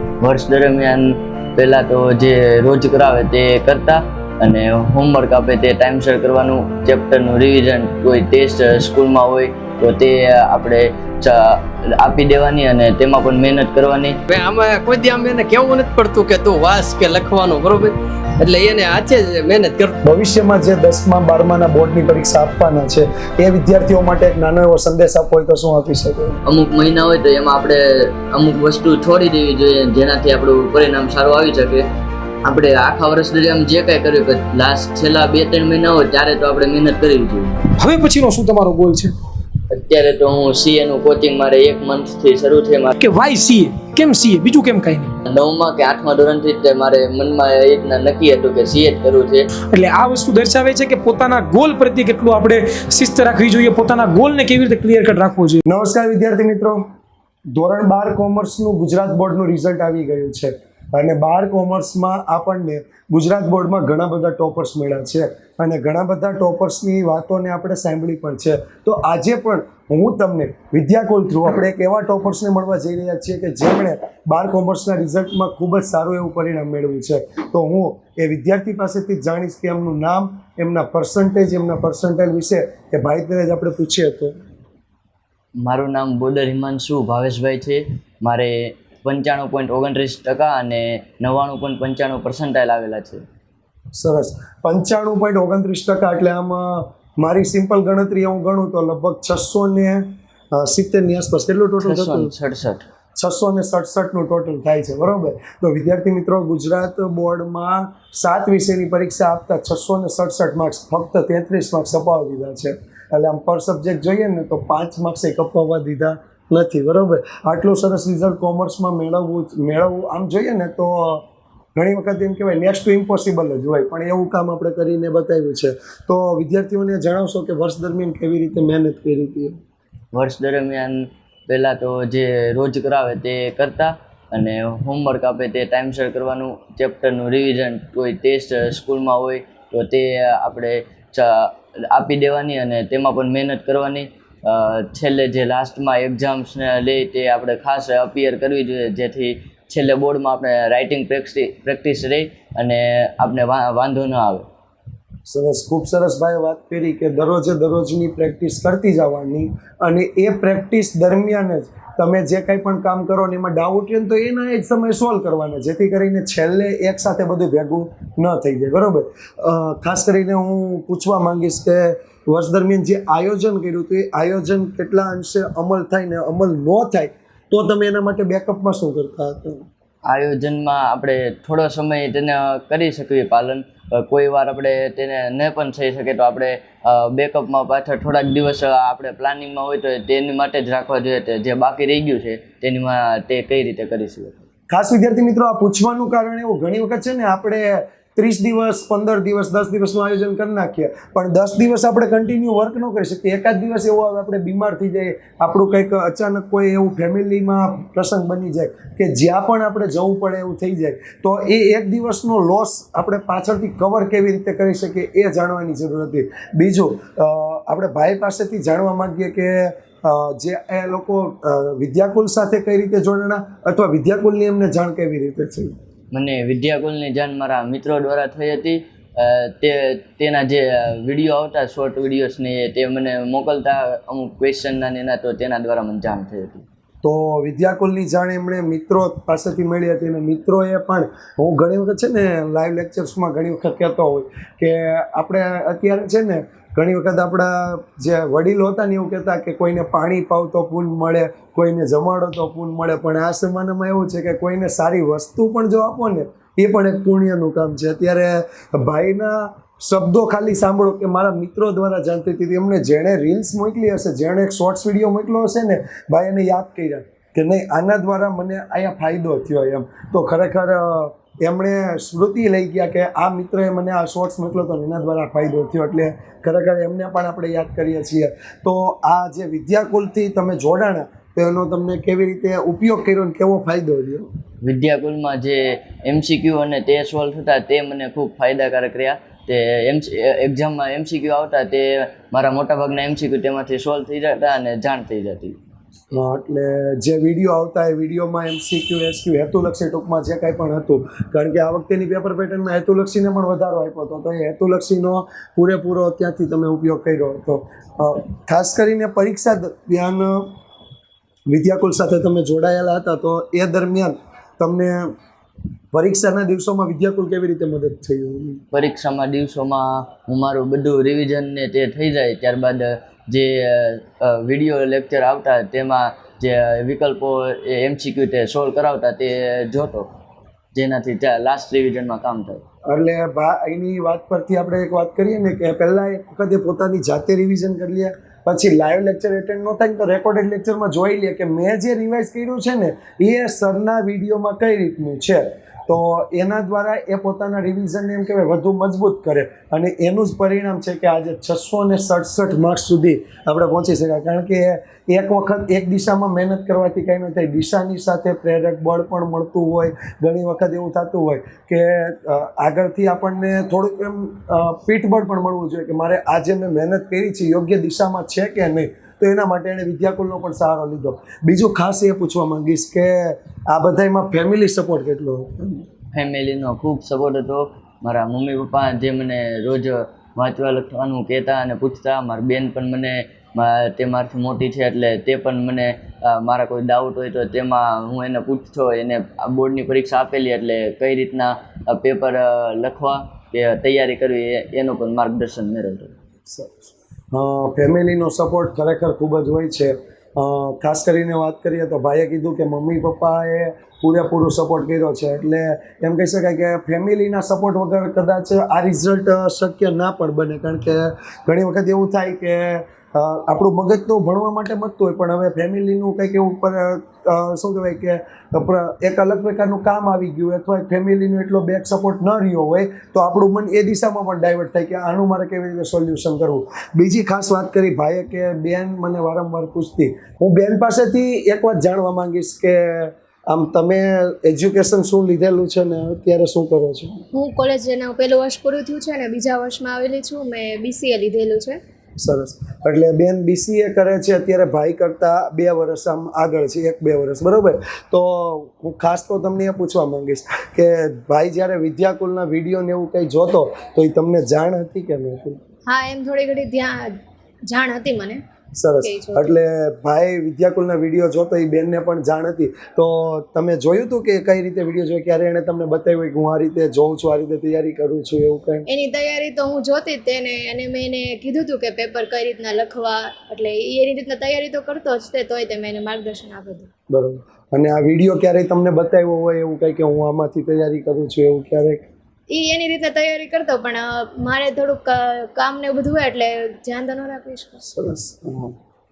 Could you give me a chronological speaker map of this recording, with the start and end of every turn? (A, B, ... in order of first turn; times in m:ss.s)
0:00.2-0:14.2 A
0:14.3-0:20.0 B
0:20.0-0:26.4 C
0:26.5-0:31.8 A
0:32.4-0:37.6 A
0:37.8-0:39.1 D
0:39.7-0:42.9 A
0:43.0-0:45.1 D
0:45.3-0:49.5 A
0:49.7-0:55.6 D
0:55.7-0:56.9 C
0:57.6-1:24.4 C
1:25.6-1:33.2 A
1:33.9-1:42.3 C
1:41.8-1:42.9 A
1:43.2-2:01.2 C
2:01.8-2:09.6 C
2:10.1-2:34.5 A
2:35.3-2:59.7 C
3:00.1-3:14.4 A
3:14.7-3:45.8 C
3:46.1-3:56.6 A
3:57.0-4:44.3 C
4:44.6-4:55.6 A
4:56.1-5:10.5 C
5:11.5-5:15.1 C
5:15.9-5:18.6 C
5:18.7-5:30.1 A
5:30.8-5:32.6 A
5:32.9-6:15.8 C
6:16.1-6:36.1 A
6:36.5-7:17.2 C
7:17.3-7:21.8 E
7:22.2-7:35.6 C
7:35.9-7:37.1 E
7:37.7-7:38.4 E
7:38.8-7:48.9 C
7:39.0-7:39.5 E
7:48.9-7:56.9 E
7:57.1-8:02.1 C
8:02.5-8:07.8 E
8:07.9-8:08.8 C